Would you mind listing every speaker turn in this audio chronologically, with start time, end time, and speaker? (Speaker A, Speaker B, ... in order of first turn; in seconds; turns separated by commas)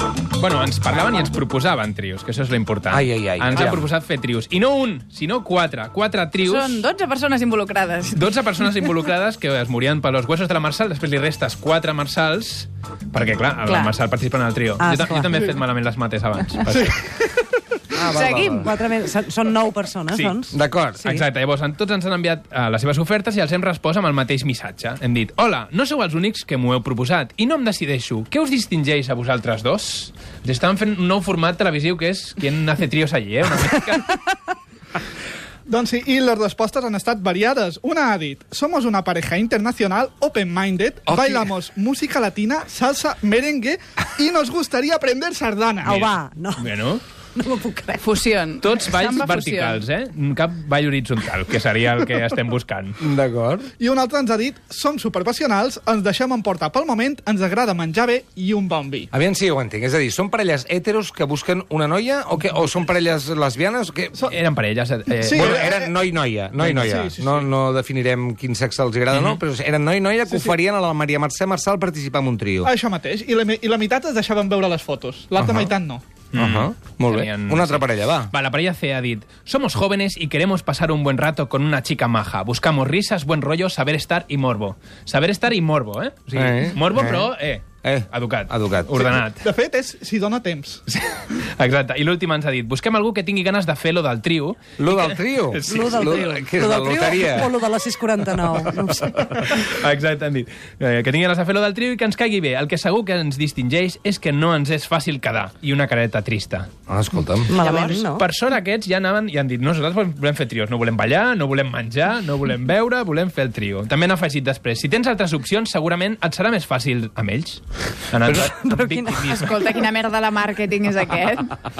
Speaker A: 0.4-6.8, Speaker B: 2.9-3.8, Speaker C: 6.4-8.2, Speaker A: 8.1-16.9, Speaker C: 13.7-13.9, Speaker D: 14.8-15.3, Speaker E: 16.7-18.0, Speaker B: 17.9-18.7, Speaker D: 18.2-21.2, Speaker A: 20.1-20.4, Speaker B: 20.5-21.0, Speaker A: 21.0-34.2, Speaker E: 35.7-46.0, Speaker B: 41.1-41.4, Speaker D: 45.8-46.7, Speaker A: 46.6-47.0, Speaker D: 47.4-48.2, Speaker C: 48.0-49.8, Speaker A: 48.6-53.0, Speaker B: 53.0-53.7, Speaker E: 53.8-59.1, Speaker B: 59.1-64.2, Speaker A: 64.3-65.7, Speaker E: 65.1-65.9, Speaker B: 65.3-72.7, Speaker E: 66.6-67.5, Speaker A: 69.1-69.4, Speaker E: 70.3-70.5, Speaker E: 72.6-76.0, Speaker B: 75.4-75.7, Speaker A: 76.3-89.4, Speaker B: 76.4-78.3, Speaker B: 86.3-89.0, Speaker E: 88.9-90.8, Speaker A: 90.9-96.3, Speaker B: 94.8-97.5, Speaker D: 95.7-99.2, Speaker A: 99.1-106.7, Speaker B: 106.9-107.5, Speaker D: 107.5-108.2, Speaker C: 107.5-108.0, Speaker A: 107.9-119.9, Speaker D: 118.3-119.3, Speaker C: 119.2-121.6